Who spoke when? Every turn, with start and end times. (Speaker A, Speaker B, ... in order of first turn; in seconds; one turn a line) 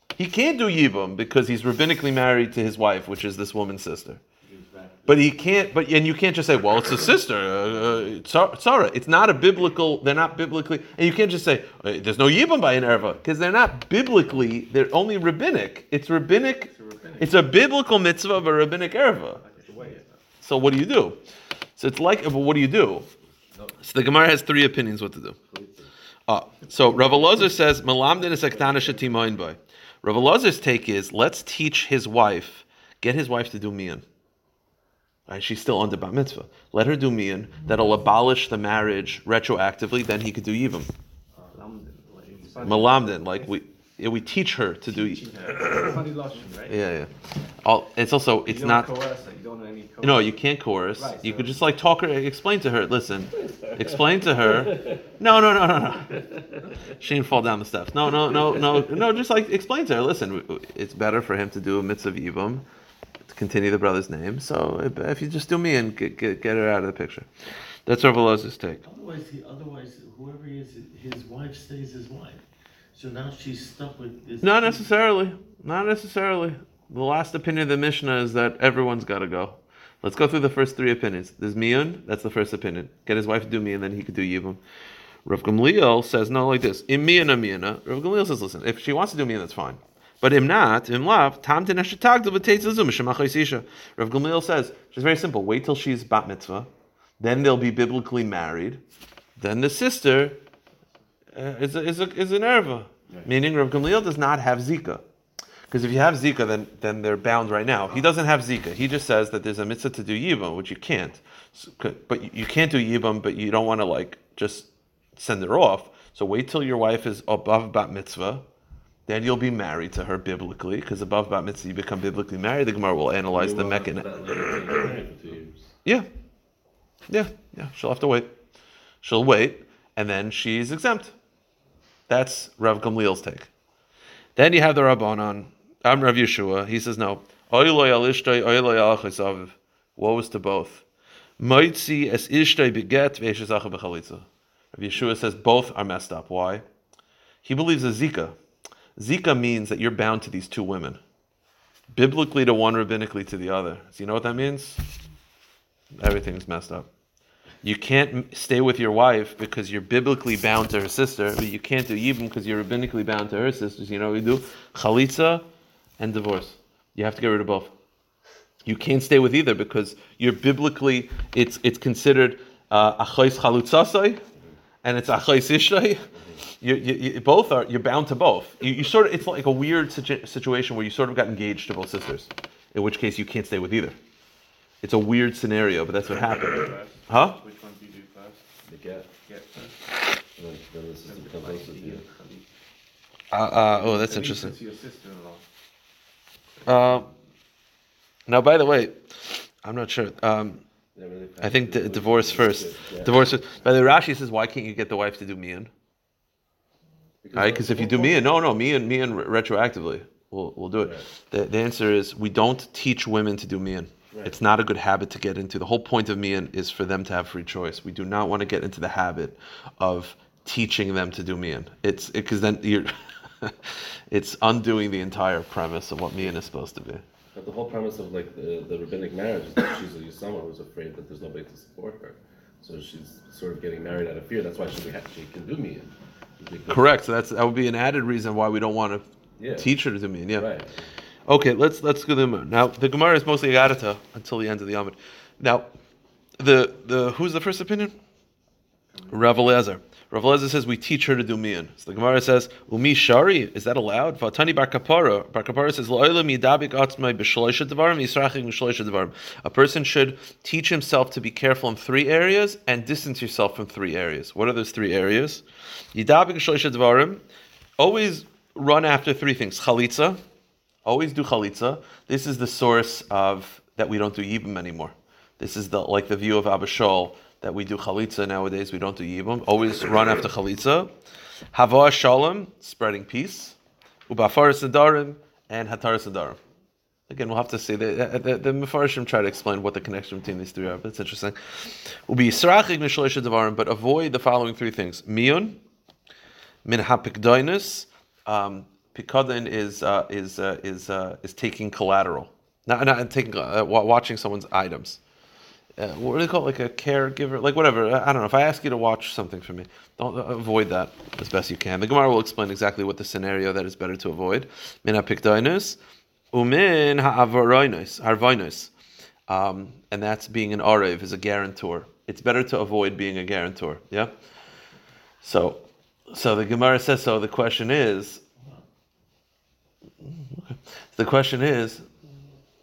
Speaker A: 0.2-4.2
Speaker B: 4.4-5.5
Speaker A: 5.1-19.4
Speaker C: 16.7-17.4
Speaker C: 19.5-20.1
Speaker A: 20.4-21.2
Speaker A: 21.8-23.1
Speaker A: 23.8-25.4
Speaker D: 25.5-25.9
Speaker A: 26.3-34.0
Speaker A: 35.3-40.9
Speaker C: 41.5-43.5
Speaker A: 42.6-45.3
Speaker C: 44.9-46.8
Speaker A: 46.7-47.1
Speaker A: 47.6-48.9
Speaker C: 48.5-50.4
Speaker A: 50.0-56.2
Speaker C: 51.0-51.6
Speaker D: 54.6-55.0
Speaker A: 56.9-62.7
Speaker A: 63.3-67.3
Speaker A: 67.9-68.8
Speaker B: 68.8-74.9
Speaker A: 74.4-84.6
Speaker A: 85.2-96.7
Speaker A: 97.2-98.8
Speaker A: 99.4-100.4
Speaker A: 101.3-105.0
Speaker A: 105.7-118.5
Speaker A: 119.1-124.1
Speaker D: 123.3-125.7
Speaker A: 127.1-128.3
Speaker A: 129.0-131.1
Speaker A: 132.1-133.5
Speaker A: 134.4-140.8
Speaker A: 141.4-146.6
Speaker A: 147.4-148.4
Speaker A: 149.0-151.0
Speaker A: 151.9-154.8
Speaker A: 156.0-156.9
Speaker A: 157.6-165.4
Speaker A: 166.0-167.7
Speaker A: 168.7-174.2
Speaker A: 174.8-176.0
Speaker D: 176.1-176.4
Speaker A: 176.6-184.0
Speaker A: 184.8-187.4
Speaker C: 186.5-188.4
Speaker D: 188.7-189.1
Speaker C: 189.2-189.8
Speaker D: 190.4-192.1
Speaker C: 191.1-192.5
Speaker A: 193.3-194.6
Speaker C: 193.6-195.4
Speaker A: 196.7-197.1
Speaker A: 198.3-199.0
Speaker A: 199.6-200.6
Speaker D: 200.9-203.3
Speaker A: 201.4-205.7
Speaker D: 207.2-208.2
Speaker A: 207.3-222.9
Speaker D: 210.8-211.1
Speaker D: 214.1-214.4
Speaker A: 223.4-227.0
Speaker D: 227.3-236.9
Speaker A: 236.7-240.5
Speaker D: 239.4-239.7
Speaker D: 240.3-240.9
Speaker A: 241.3-245.7
Speaker A: 246.4-247.9
Speaker A: 249.1-265.4
Speaker A: 265.9-267.2
Speaker A: 267.8-270.2
Speaker A: 270.9-280.9
Speaker A: 281.5-283.6
Speaker A: 284.1-286.4
Speaker A: 287.1-295.6
Speaker A: 296.6-305.0
Speaker A: 305.8-315.8
Speaker A: 316.3-318.7
Speaker A: 319.3-324.1
Speaker A: 325.2-328.2
Speaker A: 330.0-331.9